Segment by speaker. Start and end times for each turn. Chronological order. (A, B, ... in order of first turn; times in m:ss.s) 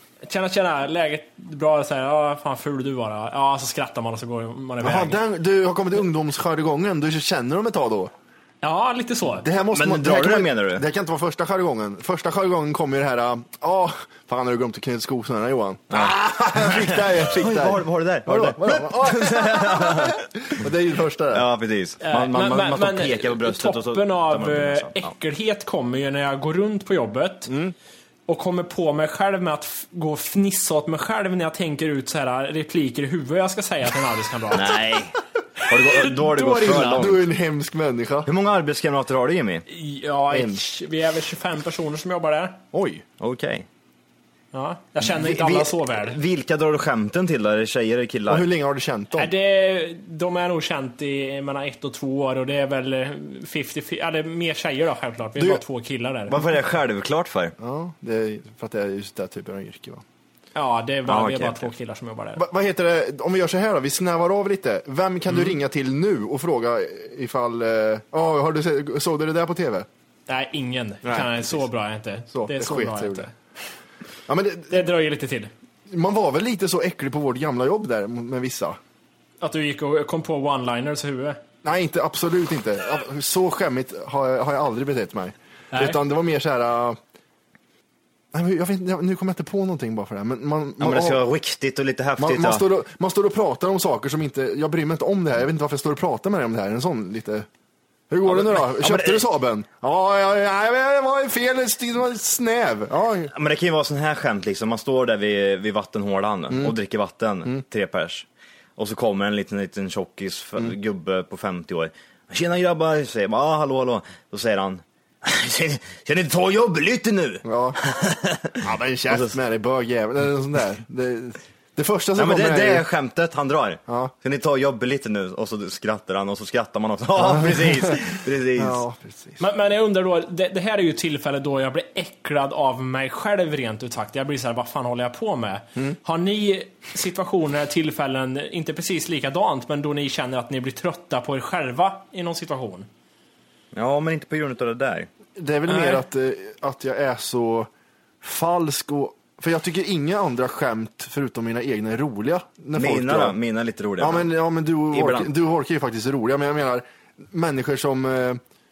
0:00.2-0:05.2 A
0:04.8-0:08.1 B
0:08.6-0:09.5 A
0:09.4-0:21.5 B
0:09.7-0:10.9 C
0:15.9-0:20.2 C
0:21.3-0:25.1 C
0:22.0-0:27.5 A
0:27.5-0:27.7 B
0:28.3-0:34.8 A
0:34.5-0:37.2 C
0:35.8-0:37.0 A
0:36.6-0:38.3 B
0:38.3-0:39.7 C
0:39.7-0:42.6 A
0:40.3-0:40.6 B
0:42.7-0:43.0 B
0:43.2-0:43.7 C
0:44.5-0:46.2 A
0:45.0-0:48.5 C
0:48.3-0:49.3 B
0:49.1-0:56.4 A
0:55.4-0:55.6 B
0:56.3-0:57.6 C
0:57.6-1:00.0 B
1:00.6-1:02.4 A
1:01.1-1:01.7 C
1:02.4-1:09.9 B
1:10.3-1:13.3 A
1:11.0-1:11.7 B
1:12.3-1:13.3 B
1:14.3-1:14.8 B
1:14.7-1:15.5 A
1:15.9-1:18.8 B
1:19.4-1:21.4 A
1:21.6-1:27.0 B
1:25.7-1:26.0 A
1:28.3-1:31.2 B
1:30.8-1:32.6 C
1:32.2-1:37.5 B
1:38.1-1:43.3 B
1:38.2-1:39.3 C
1:43.3-1:48.3 C
1:46.5-1:46.8 B
1:48.8-1:59.4 C
1:57.4-1:57.8 B
1:58.6-2:02.9 B
2:02.2-2:08.8 C
2:03.9-2:04.1 B
2:07.2-2:08.0 B
2:08.6-2:09.4 B
2:09.4-2:22.9 A
2:23.7-2:25.1 C
2:25.4-2:27.7 B
2:25.7-2:26.0 A
2:28.2-2:33.4 B
2:32.8-2:34.3 C
2:34.0-2:38.4 B
2:34.9-2:35.3 C